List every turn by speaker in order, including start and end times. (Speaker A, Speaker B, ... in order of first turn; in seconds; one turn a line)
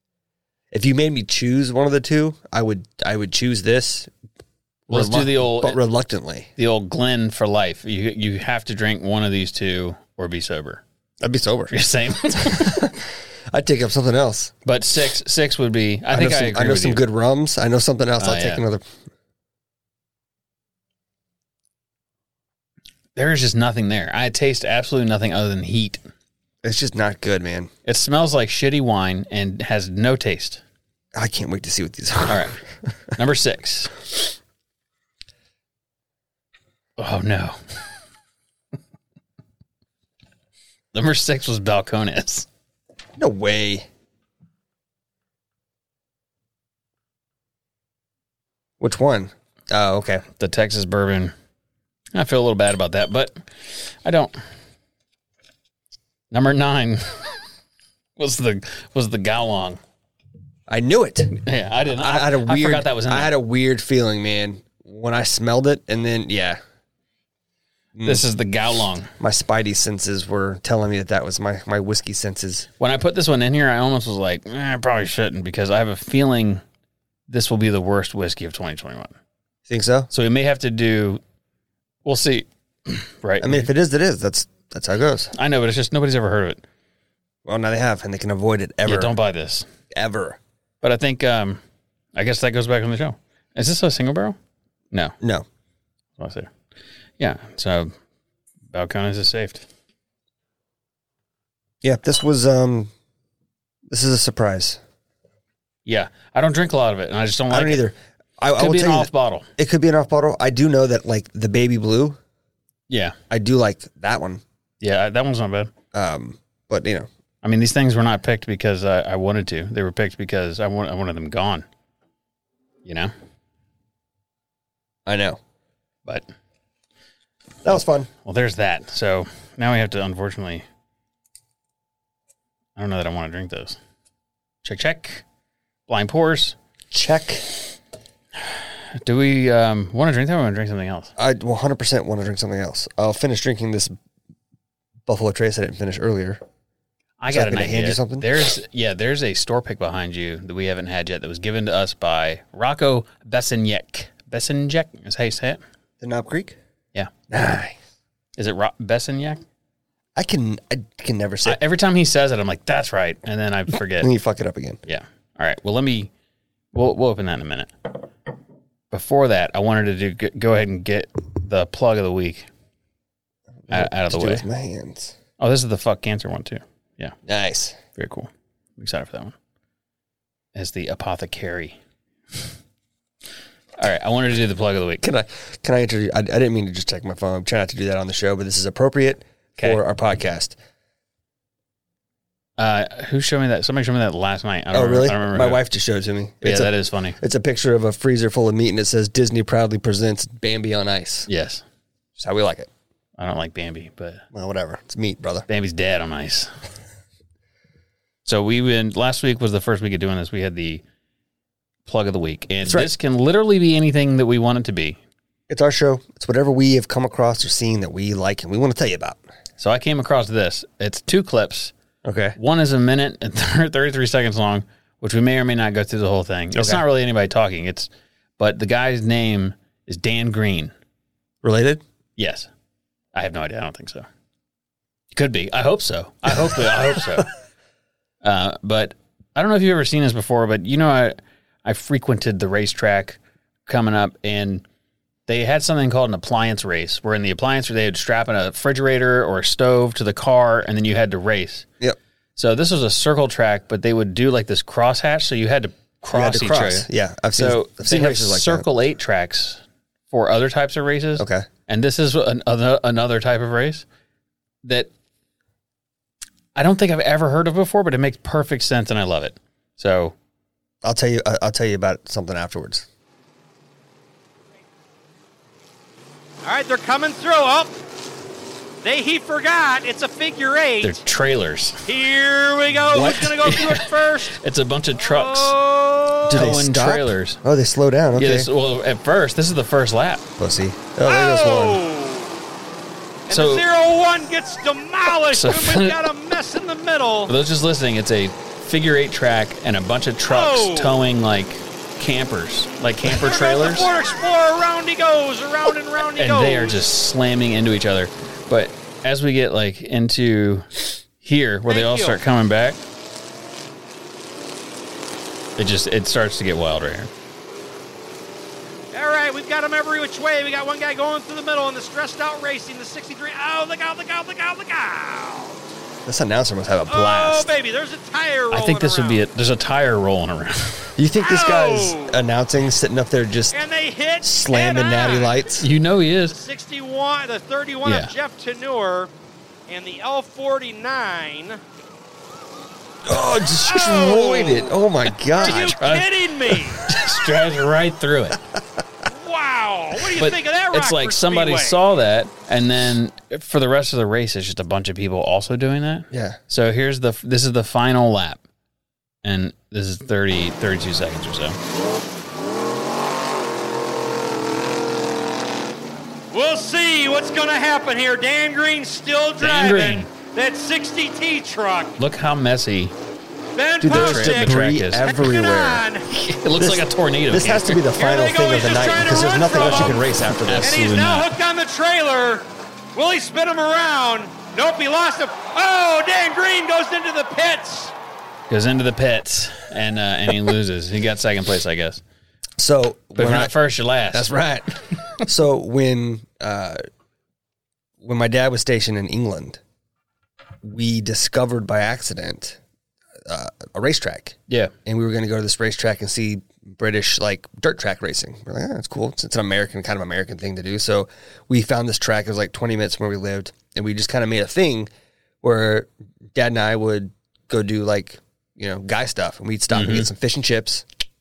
Speaker A: 0.7-4.1
Speaker B: 4.9-5.8
Speaker A: 4.9-6.5
Speaker B: 6.6-10.8
Speaker A: 11.2-11.8
Speaker B: 11.7-12.9
Speaker A: 12.3-14.5
Speaker B: 14.7-17.0
Speaker A: 16.1-18.9
Speaker B: 18.2-18.6
Speaker B: 23.2-26.0
Speaker A: 26.6-27.7
Speaker B: 27.9-30.6
Speaker A: 31.1-32.6
Speaker B: 32.3-32.6
Speaker B: 33.2-34.1
Speaker B: 37.0-37.6
Speaker B: 40.9-42.5
Speaker A: 43.2-43.9
Speaker A: 48.8-50.2
Speaker B: 50.4-51.3
Speaker B: 52.1-54.4
Speaker B: 56.3-57.4
Speaker B: 58.2-59.8
Speaker A: 60.7-61.4
Speaker B: 61.4-63.3
Speaker A: 61.9-66.6
Speaker A: 68.0-68.2
Speaker B: 68.0-69.1
Speaker A: 69.2-72.7
Speaker B: 72.8-76.6
Speaker B: 77.3-79.2
Speaker A: 79.7-80.1
Speaker B: 80.1-81.2
Speaker B: 82.0-83.7
Speaker A: 83.4-85.3
Speaker B: 85.3-86.6
Speaker A: 87.5-89.1
Speaker B: 88.8-89.7
Speaker A: 89.9-90.4
Speaker B: 90.8-91.6
Speaker B: 92.2-94.4
Speaker B: 94.9-95.2
Speaker A: 95.2-95.5
Speaker B: 96.2-96.5
Speaker B: 97.2-97.9
Speaker B: 98.7-99.7
Speaker A: 101.8-102.9
Speaker A: 103.9-104.8
Speaker B: 105.9-107.8
Speaker A: 107.5-112.2
Speaker B: 108.6-109.5
Speaker B: 112.9-113.2
Speaker A: 113.3-114.4
Speaker B: 114.8-115.7
Speaker A: 115.9-117.1
Speaker B: 117.4-121.7
Speaker B: 122.8-123.1
Speaker A: 125.1-125.4
Speaker A: 127.7-128.1
Speaker B: 128.2-130.7
Speaker B: 132.8-133.8
Speaker B: 134.6-135.2
Speaker B: 135.9-136.6
Speaker A: 136.9-137.6
Speaker B: 138.4-141.1
Speaker A: 141.2-143.9
Speaker A: 145.1-146.4
Speaker B: 147.2-155.6
Speaker A: 147.3-148.3
Speaker A: 156.0-156.6
Speaker A: 157.3-157.8
Speaker B: 158.4-159.4
Speaker A: 160.2-161.6
Speaker B: 161.4-164.1
Speaker A: 164.0-164.8
Speaker B: 164.8-166.1
Speaker B: 166.7-167.7
Speaker B: 168.9-172.5
Speaker A: 173.6-175.2
Speaker B: 173.7-174.5
Speaker B: 175.4-177.2
Speaker A: 177.3-177.8
Speaker B: 178.0-179.3
Speaker B: 180.6-181.8
Speaker B: 183.8-185.0
Speaker A: 185.0-190.6
Speaker B: 192.6-195.6
Speaker A: 194.7-201.3
Speaker B: 196.4-197.2
Speaker B: 201.3-201.6
Speaker A: 202.2-202.7
Speaker B: 203.2-204.2
Speaker A: 204.3-205.5
Speaker B: 205.5-206.5
Speaker B: 208.2-210.8
Speaker B: 211.9-215.0
Speaker A: 212.6-212.9
Speaker A: 215.5-219.2
Speaker B: 219.6-221.7
Speaker A: 222.0-222.4
Speaker B: 222.4-230.7
Speaker A: 226.6-226.8
Speaker A: 231.4-231.8
Speaker B: 232.2-232.5
Speaker B: 233.1-234.1
Speaker B: 235.1-237.3
Speaker B: 238.2-244.6
Speaker B: 245.3-251.7
Speaker B: 252.4-263.9
Speaker A: 256.1-258.7
Speaker A: 261.2-261.5
Speaker B: 264.6-264.9
Speaker B: 266.6-270.1
Speaker A: 270.8-272.9
Speaker C: 276.4-277.7
Speaker C: 278.8-281.0
Speaker B: 280.8-281.8
Speaker C: 281.9-284.4
Speaker B: 282.9-285.6
Speaker A: 282.9-283.2
Speaker C: 285.0-286.5
Speaker A: 286.3-288.5
Speaker B: 286.3-287.4
Speaker B: 288.1-290.3
Speaker A: 290.4-291.8
Speaker C: 291.0-292.4
Speaker C: 293.3-297.3
Speaker B: 293.3-293.6
Speaker B: 295.3-296.0
Speaker B: 297.3-303.9
Speaker C: 300.3-301.0
Speaker C: 303.1-306.8
Speaker B: 306.2-312.8
Speaker C: 311.7-312.2
Speaker B: 315.6-317.1
Speaker C: 318.9-325.6
Speaker A: 326.1-327.5
Speaker C: 326.9-329.2
Speaker B: 328.5-330.9
Speaker A: 331.0-333.6
Speaker C: 331.2-332.2
Speaker C: 333.5-335.4
Speaker A: 334.2-335.7
Speaker B: 335.6-336.4
Speaker C: 336.3-339.1
Speaker B: 337.9-338.1
Speaker C: 339.7-341.6
Speaker A: 343.1-345.8
Speaker C: 343.6-344.7
Speaker C: 345.4-346.9
Speaker B: 345.4-346.1
Speaker B: 346.8-348.4
Speaker C: 349.1-351.8
Speaker B: 350.2-358.4
Speaker A: 356.1-356.4
Speaker B: 359.2-361.6
Speaker C: 366.3-372.0
Speaker B: 369.4-370.1
Speaker B: 372.0-372.9
Speaker C: 373.6-376.1
Speaker A: 373.8-375.9
Speaker B: 373.9-375.1
Speaker B: 376.1-377.8
Speaker A: 376.6-380.8
Speaker C: 377.9-380.1
Speaker B: 379.6-381.3
Speaker C: 380.6-387.9
Speaker B: 388.5-392.0
Speaker A: 392.6-393.6
Speaker B: 393.2-394.3
Speaker A: 394.1-396.8
Speaker A: 398.0-399.6
Speaker A: 400.6-402.6
Speaker A: 403.3-414.9
Speaker B: 404.5-404.7
Speaker A: 415.4-420.9
Speaker B: 419.7-420.1